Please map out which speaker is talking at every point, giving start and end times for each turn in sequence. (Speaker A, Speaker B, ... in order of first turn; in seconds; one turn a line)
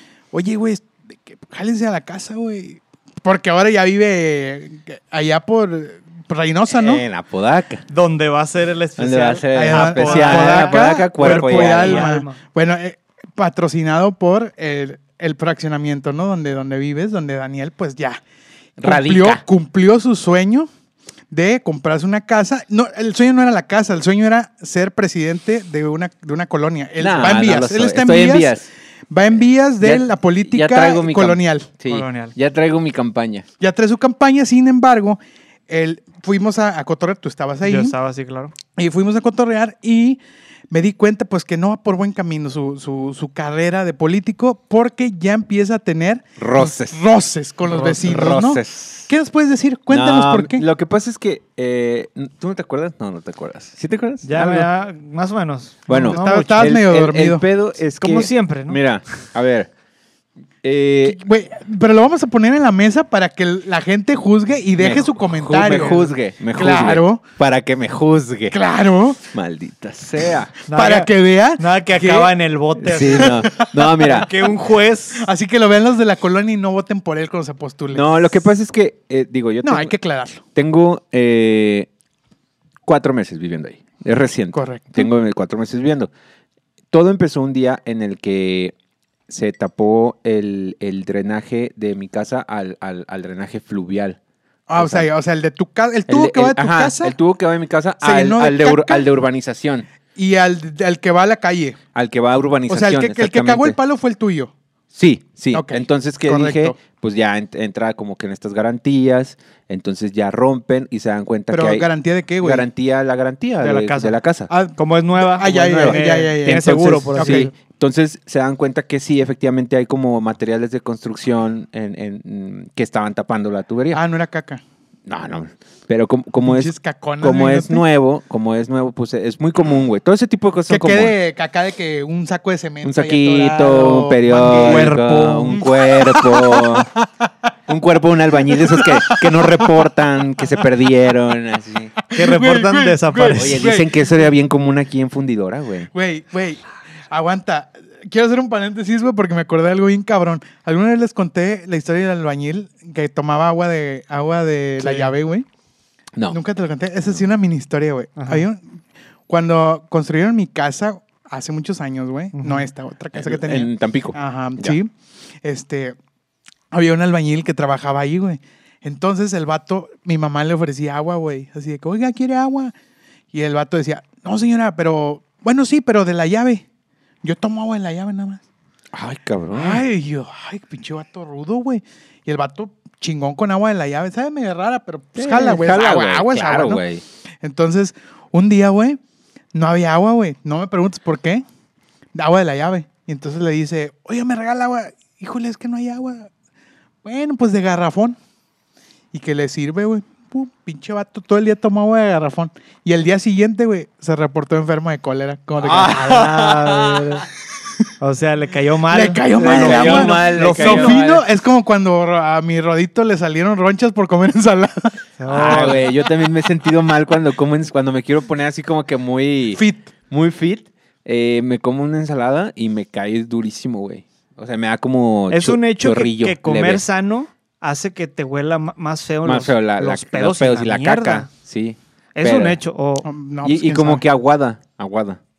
Speaker A: 0.3-7.0
Speaker B: 6.7-7.8
Speaker C: 7.9-12.4
Speaker B: 9.0-12.1
Speaker A: 9.5-18.2
Speaker B: 18.8-19.4
Speaker A: 18.8-20.7
Speaker A: 21.3-28.6
Speaker B: 27.0-28.7
Speaker A: 29.1-31.7
Speaker B: 29.8-33.5
Speaker C: 31.9-32.4
Speaker A: 33.6-38.0
Speaker C: 37.6-38.5
Speaker A: 38.8-50.6
Speaker B: 46.4-47.0
Speaker C: 47.7-48.0
Speaker B: 48.0-49.1
Speaker B: 49.9-54.7
Speaker C: 54.2-56.7
Speaker B: 55.9-59.7
Speaker A: 55.9-57.4
Speaker C: 58.0-58.8
Speaker B: 60.6-61.2
Speaker A: 61.0-67.2
Speaker B: 64.8-68.6
Speaker A: 68.5-69.2
Speaker B: 69.3-70.5
Speaker C: 70.7-75.3
Speaker A: 70.7-72.3
Speaker B: 72.8-74.3
Speaker A: 73.1-74.3
Speaker A: 75.2-78.3
Speaker B: 77.9-79.9
Speaker A: 79.6-80.4
Speaker B: 80.5-81.9
Speaker B: 82.8-86.1
Speaker A: 84.5-85.1
Speaker B: 86.9-88.7
Speaker B: 89.3-94.2
Speaker A: 94.7-97.2
Speaker B: 94.8-95.1
Speaker B: 96.1-99.9
Speaker A: 98.0-99.1
Speaker A: 100.2-101.8
Speaker B: 102.0-103.8
Speaker A: 102.7-104.5
Speaker B: 104.9-111.9
Speaker A: 105.5-106.8
Speaker A: 111.5-112.7
Speaker B: 112.4-114.5
Speaker C: 113.6-114.2
Speaker A: 114.5-117.5
Speaker C: 114.8-117.5
Speaker B: 115.4-124.0
Speaker A: 123.9-124.6
Speaker B: 125.1-131.2
Speaker A: 126.4-127.8
Speaker A: 130.7-137.3
Speaker B: 132.8-136.9
Speaker C: 134.5-135.7
Speaker B: 137.7-141.9
Speaker A: 138.5-139.7
Speaker A: 142.1-144.1
Speaker C: 142.1-143.6
Speaker B: 143.4-145.9
Speaker A: 145.9-155.5
Speaker C: 154.8-155.1
Speaker A: 156.3-158.6
Speaker C: 158.2-158.4
Speaker A: 159.3-164.9
Speaker C: 162.4-162.7
Speaker B: 163.1-164.8
Speaker A: 165.4-166.0
Speaker A: 166.7-172.7
Speaker A: 173.3-176.6
Speaker A: 177.2-178.4
Speaker B: 178.9-179.8
Speaker A: 179.5-186.8
Speaker B: 185.2-187.0
Speaker A: 187.4-189.0
Speaker A: 189.5-191.4
Speaker A: 192.2-196.3
Speaker A: 197.0-198.2
Speaker A: 199.1-206.0
Speaker B: 205.6-207.2
Speaker C: 205.8-207.3
Speaker C: 208.0-211.0
Speaker A: 208.9-214.9
Speaker B: 209.4-211.2
Speaker C: 215.2-215.9
Speaker B: 215.3-226.8
Speaker A: 215.4-215.8
Speaker A: 219.6-219.9
Speaker C: 225.3-231.3
Speaker B: 229.2-232.6
Speaker C: 232.2-233.1
Speaker A: 233.0-234.0
Speaker B: 233.4-235.2